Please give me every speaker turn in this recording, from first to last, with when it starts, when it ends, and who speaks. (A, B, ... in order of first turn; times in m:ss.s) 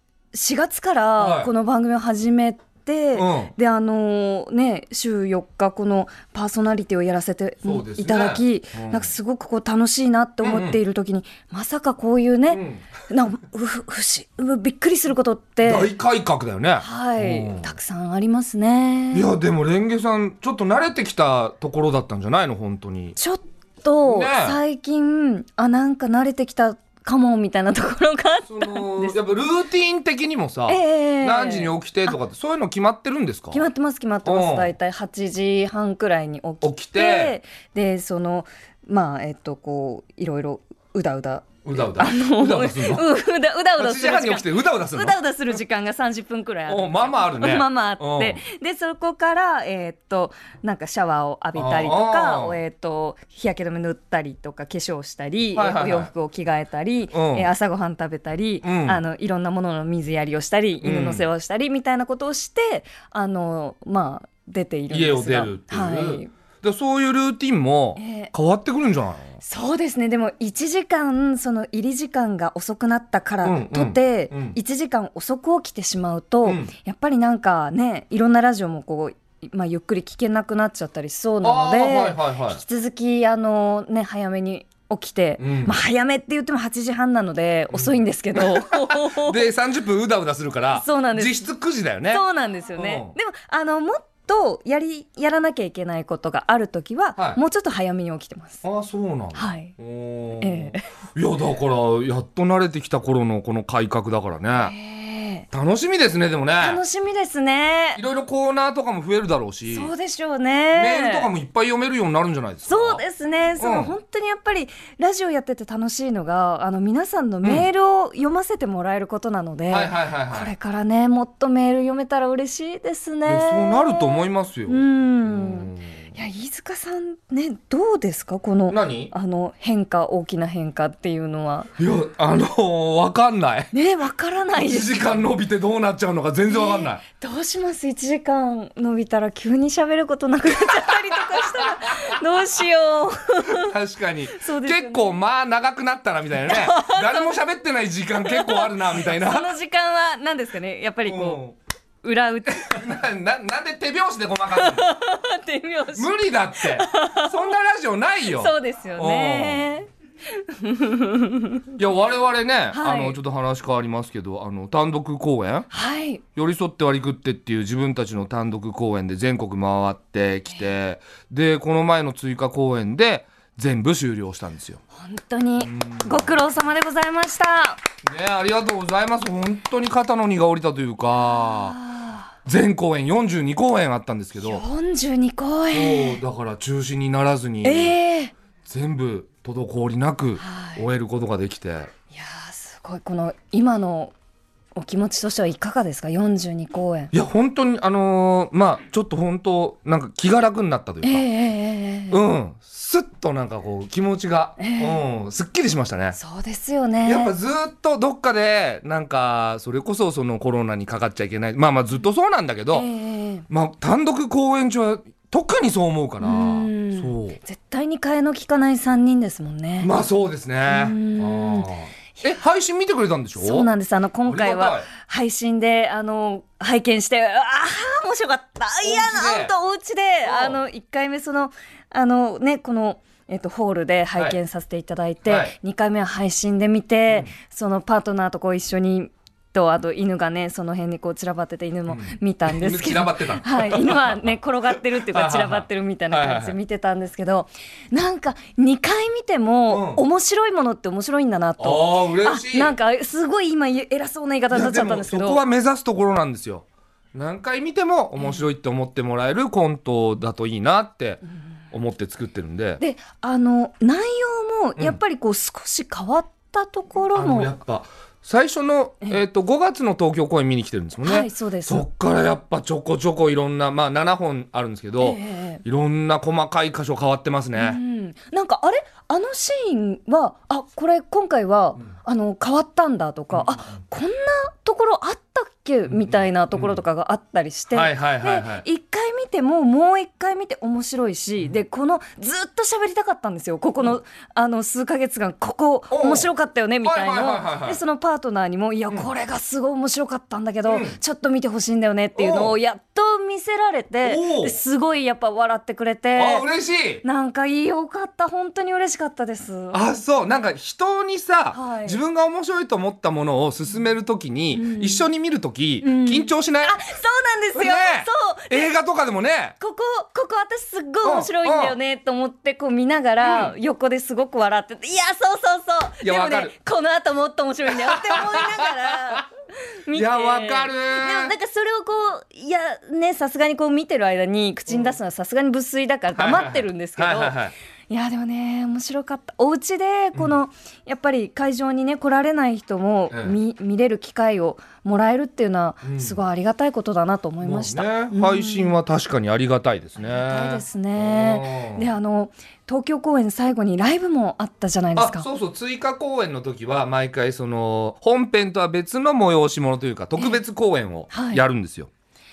0:00.3-0:15.9 A
0:01.2-0:01.5 B
0:03.1-0:03.5 B
0:07.6-0:09.1 B
0:10.4-0:10.8 B
0:12.5-0:12.8 B
0:15.6-0:17.7 B
0:16.8-0:19.3 A
0:19.1-0:23.2 B
0:23.2-0:29.2 A
0:24.0-0:24.6 B
0:28.4-0:33.6 B
0:30.7-0:32.2 A
0:33.5-1:06.3 A
0:34.2-0:34.7 B
0:36.6-0:37.4 B
0:41.6-0:43.0 B
0:43.8-0:45.2 B
0:46.7-0:48.4 B
0:51.6-0:52.6 B
0:55.6-0:56.1 B
0:57.1-0:57.5 B
0:58.6-0:59.0 B
1:00.8-1:01.3 B
1:04.9-1:09.4 B
1:08.0-1:08.3 A
1:09.4-1:29.5 A
1:13.4-1:14.6 B
1:16.4-1:16.7 B
1:21.4-1:22.6 B
1:25.4-1:25.8 B
1:27.7-1:33.1 B
1:30.7-1:31.4 A
1:32.1-1:38.6 A
1:38.6-1:44.7 B
1:39.3-1:39.7 A
1:40.4-1:40.8 A
1:44.5-1:45.4 A
1:45.5-1:46.8 B
1:46.6-1:48.0 A
1:48.0-1:49.9 B
1:49.6-1:51.3 A
1:50.7-1:53.0 B
1:52.7-2:11.7 A
1:53.6-1:54.0 B
1:59.7-2:00.5 B
2:03.2-2:06.0 B
2:08.7-2:09.1 B
2:11.8-2:13.7 B
2:13.7-2:15.2 A
2:14.6-2:17.0 B
2:16.5-2:23.7 A
2:20.6-2:22.2 B
2:23.4-2:29.5 B
2:24.3-2:25.2 A
2:26.4-2:27.4 A
2:28.2-2:31.4 A
2:31.0-2:31.6 B
2:32.0-2:32.8 A
2:32.6-2:34.9 B
2:34.5-2:37.6 A
2:35.9-2:39.7 B
2:38.3-2:41.7 A
2:41.7-2:45.7 B
2:42.7-2:43.2 A
2:45.7-2:46.2 A
2:46.4-2:54.8 B
2:54.9-2:57.8 A
2:55.6-2:56.4 B
2:58.0-3:01.8 B
3:01.2-3:02.3 A
3:02.4-3:04.6 B
3:04.4-3:06.2 A
3:05.7-3:08.0 B
3:07.6-3:08.3 A
3:08.6-3:11.9 B
3:10.4-3:10.8 A
3:12.1-3:14.1 A
3:14.7-3:17.1 A
3:17.1-3:21.2 B
3:21.0-3:22.2 A
3:22.1-3:26.2 B
3:24.6-3:25.0 A
3:26.2-3:27.3 A
3:27.0-3:32.9 B
3:32.7-3:33.4 A
3:33.5-3:37.4 B
3:36.2-3:39.9 A
3:39.8-3:43.7 B
3:40.7-3:41.7 A
3:43.4-4:15.4 A
3:44.2-3:44.9 B
3:48.8-3:49.5 B
3:50.2-3:50.6 B
3:55.2-3:55.5 B
4:01.9-4:04.2 B
4:05.1-4:06.6 B
4:09.7-4:10.0 B
4:11.6-4:12.7 B
4:14.5-4:21.2 B
4:18.2-4:18.4 A
4:21.7-4:22.8 B
4:22.8-4:27.5 A
4:27.1-4:37.8 B
4:31.0-4:31.8 A
4:35.0-4:35.6 A
4:37.5-5:06.5 A
4:45.9-4:46.8 B
4:47.7-4:48.6 B
4:55.9-4:56.3 B
4:56.8-4:57.8 B
5:00.6-5:01.0 B
5:02.2-5:02.5 B
5:04.0-5:04.6 B
5:06.2-5:07.0 B
5:07.0-5:09.8 A
5:09.7-5:16.8 B
5:11.5-5:12.0 A
5:14.5-5:15.1 A
5:15.8-5:18.7 A
5:17.5-5:19.5 B
5:19.6-5:29.3 A
5:21.0-5:21.8 B
5:23.2-5:23.5 B
5:26.0-5:26.5 B
5:27.7-5:29.2 B
5:29.8-5:37.4 A
5:29.9-5:31.4 B
5:34.7-5:35.0 B
5:36.1-5:37.5 B
5:37.9-5:48.7 A
5:43.1-5:43.4 B
5:45.8-5:46.2 B
5:47.4-5:51.9 B
5:50.0-5:55.3 A
5:55.0-6:01.9 B
6:01.1-6:01.4 A